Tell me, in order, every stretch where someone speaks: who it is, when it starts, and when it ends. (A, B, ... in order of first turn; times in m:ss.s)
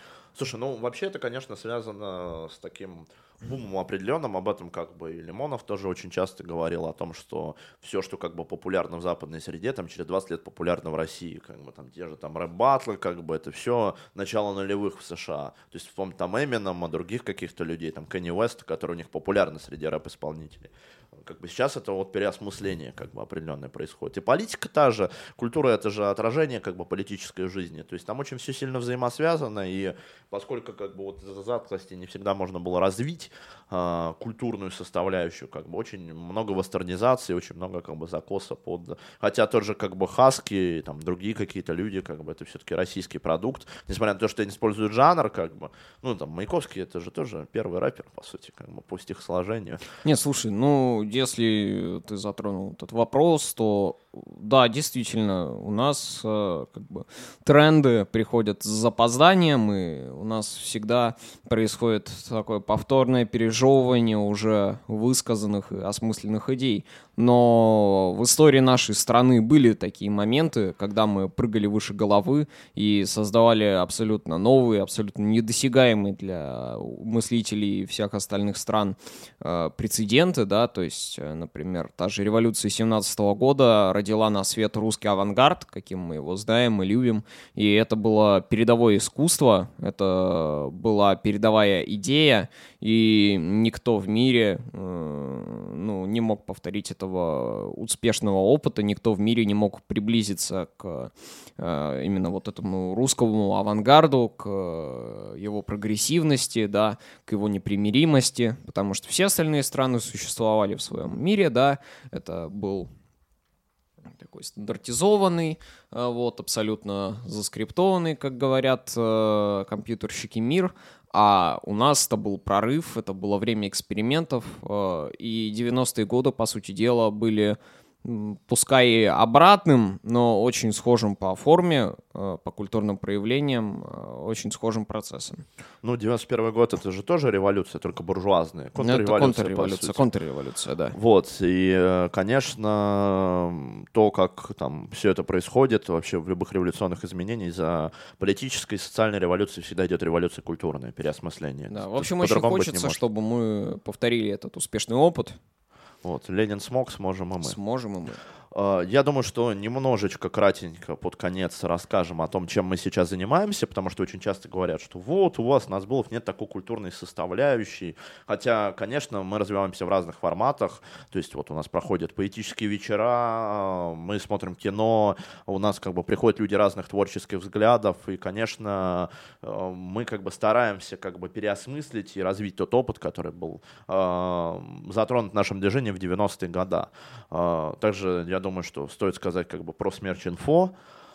0:00.3-0:49.8 A
0:50.0-1:52.9 B
1:54.1-2:15.4 B
2:15.8-2:20.1 A
2:18.8-2:21.0 B
2:20.9-2:33.0 A
2:31.7-2:35.4 B
2:36.0-2:37.6 A
2:37.4-2:38.2 B
2:38.5-3:10.7 A